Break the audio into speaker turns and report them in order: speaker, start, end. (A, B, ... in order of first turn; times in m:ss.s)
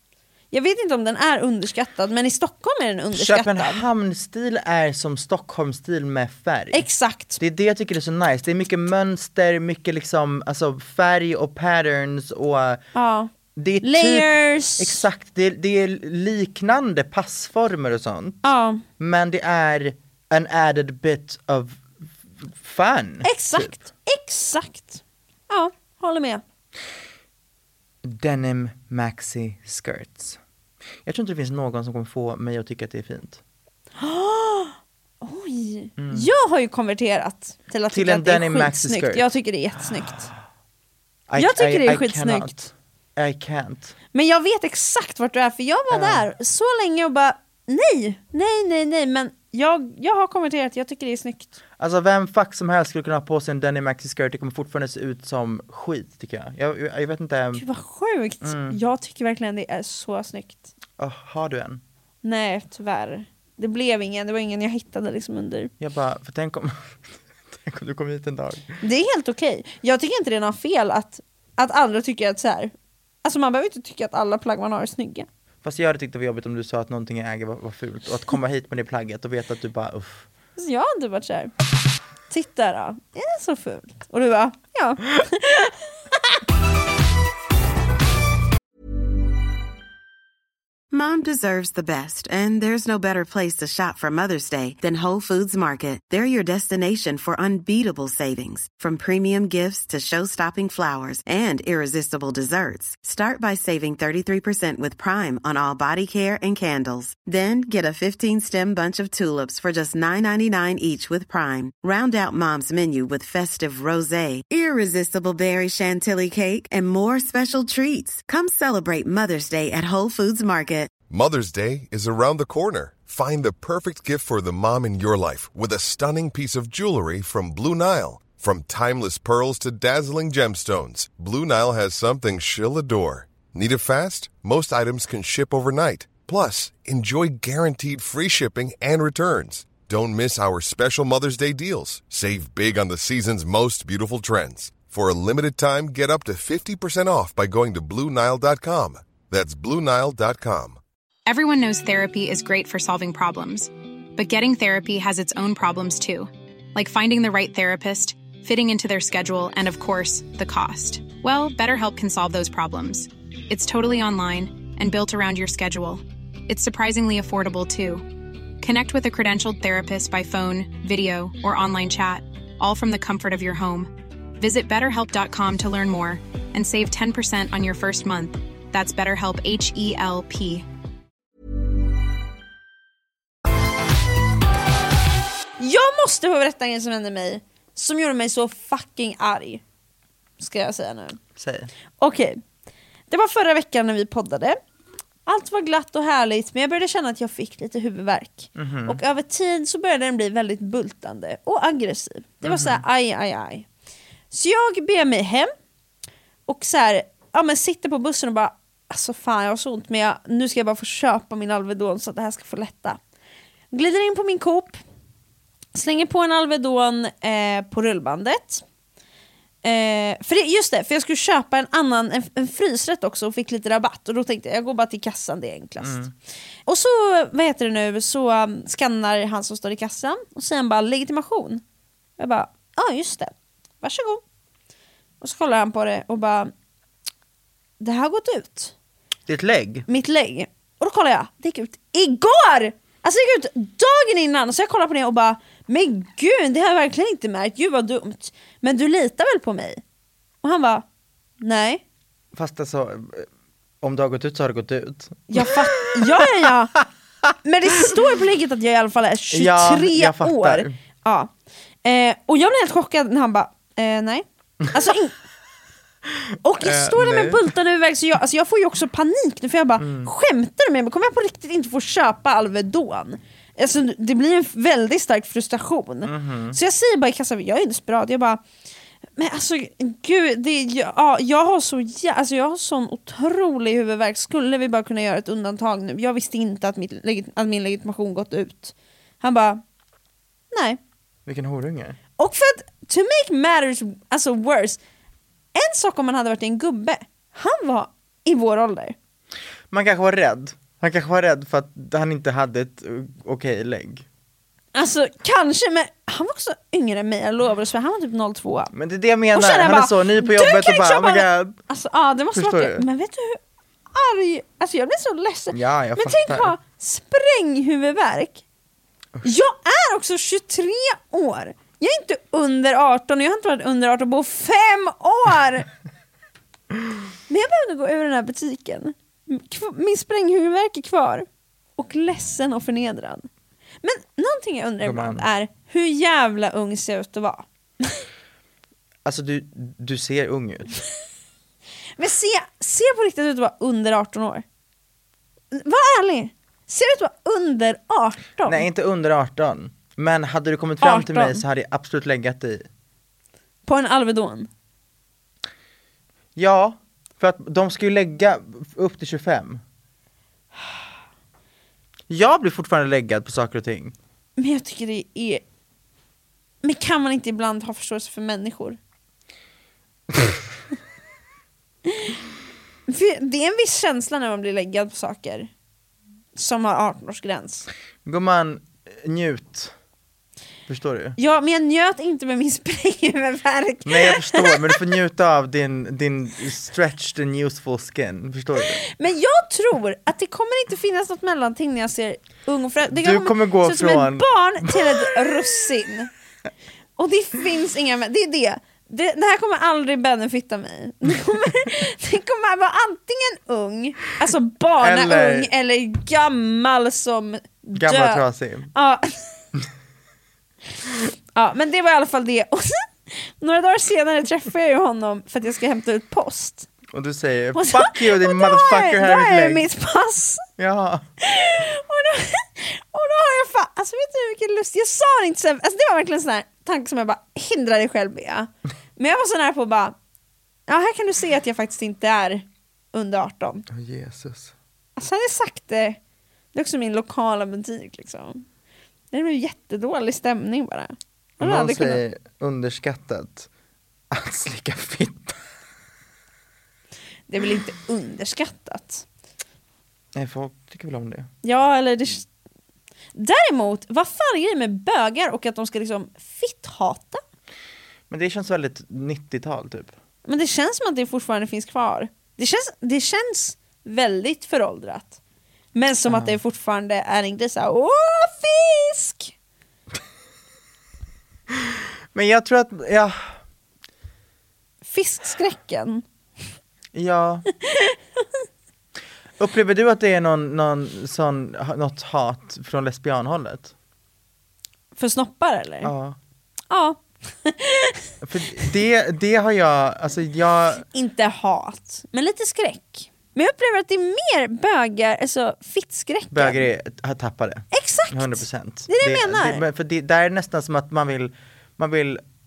0:00.5-0:03.8 A
0:03.1-0:06.9 B
0:06.7-0:07.4 A
0:07.4-0:12.8 B
0:12.9-0:13.3 A
0:13.6-0:18.4 B
0:13.8-0:15.0 A
0:18.4-0:18.8 A
0:19.0-0:23.8 B
0:23.2-0:26.4 A
0:28.0-0:30.4 B
0:31.0-0:33.4 B
0:34.0-0:40.3 A
0:36.0-0:36.3 B
0:37.9-0:39.4 B
0:41.3-0:43.9 B
0:41.4-0:42.6 A
0:44.1-0:51.6 A
0:45.9-0:46.3 B
0:51.8-0:57.6 B
0:57.5-1:00.7 A
0:58.4-0:58.8 B
1:01.0-1:01.8 B
1:02.2-1:05.7 A
1:05.8-1:07.0 B
1:07.5-1:08.8 B
1:08.8-1:15.3 A
1:15.6-1:20.2 B
1:20.6-1:21.5 A
1:22.3-1:25.8 A
1:30.9-2:01.0 C
2:01.1-2:30.8 D
2:31.2-3:00.6 E
3:05.6-3:09.6 A
3:10.4-3:11.2 A
3:11.4-3:11.7 B
3:12.0-3:12.4 A
3:13.1-3:14.6 A
3:15.2-3:23.6 A
3:18.6-3:19.0 B
3:22.4-3:22.8 B
3:24.3-3:25.5 A
3:26.5-3:33.0 A
3:33.7-3:34.8 A
3:35.7-3:38.6 A
3:39.6-3:46.0 A
3:45.8-3:46.1 B
3:46.6-3:51.6 A
3:52.2-3:54.2 A
3:55.2-3:56.5 A
3:57.8-3:58.7 A
3:59.3-3:59.8 B
3:59.9-4:09.8 A
4:10.4-4:10.8 A
4:11.4-4:11.8 A
4:12.3-4:13.3 B
4:13.8-4:16.3 B
4:15.3-4:16.8 A
4:17.4-4:21.3 A
4:19.3-4:20.7 B
4:21.8-4:25.1 A
4:26.4-4:38.4 A
4:26.6-4:27.5 B
4:29.8-4:30.1 B
4:36.0-4:36.6 B
4:39.2-4:49.6 A
4:50.5-4:50.8 A
4:51.2-4:52.0 B
4:52.2-4:54.8 A
4:55.5-4:59.0 A
4:59.7-5:04.0 B
5:04.7-5:08.7 A
5:08.7-5:11.6 B
5:09.3-5:13.4 A
5:12.3-5:12.8 B
5:13.9-5:18.4 A
5:15.5-5:16.5 B
5:19.2-5:25.7 A
5:27.3-5:33.3 A
5:33.8-5:38.0 A
5:34.8-5:35.3 B
5:39.0-5:40.8 B
5:42.0-5:44.4 A
5:45.5-5:48.6 A
5:48.4-5:52.7 B
5:50.8-5:51.4 A
5:53.6-5:54.5 A
5:56.4-5:59.6 B
6:02.1-6:03.9 B
6:04.4-6:05.4 A
6:06.6-6:08.8 A
6:12.9-6:15.5 A
6:16.3-6:17.7 A
6:18.0-6:19.7 B
6:20.7-6:21.2 B
6:21.2-6:24.9 A
6:23.8-6:28.8 B
6:28.6-6:36.1 A
6:32.9-6:35.1 B
6:37.0-6:49.2 A
6:44.8-6:45.5 B
6:47.7-6:48.7 B
6:51.4-6:56.7 A
6:56.9-6:59.7 B
6:57.5-7:00.4 A
7:00.6-7:01.0 B
7:01.2-7:09.9 A
7:10.7-7:13.7 A
7:13.7-7:14.5 B
7:15.0-7:16.0 A
7:16.5-7:18.4 A
7:19.1-7:22.0 A
7:21.4-7:23.5 B
7:24.1-7:25.4 B
7:27.3-7:29.0 A
7:30.1-7:31.3 B
7:31.4-7:32.3 A
7:33.2-7:37.2 A
7:38.1-7:39.9 B
7:40.2-7:45.2 A
7:45.7-7:49.3 A
7:46.1-7:46.4 B
7:51.6-7:53.3 B
7:54.8-7:56.0 A
7:56.9-7:57.4 B
7:57.7-7:57.9 A
7:59.4-8:03.7 B
8:05.0-8:05.9 A
8:05.8-8:06.2 B
8:06.7-8:08.0 A
8:08.2-8:10.8 B
8:10.9-8:16.6 A
8:16.3-8:22.2 B
8:17.7-8:19.6 A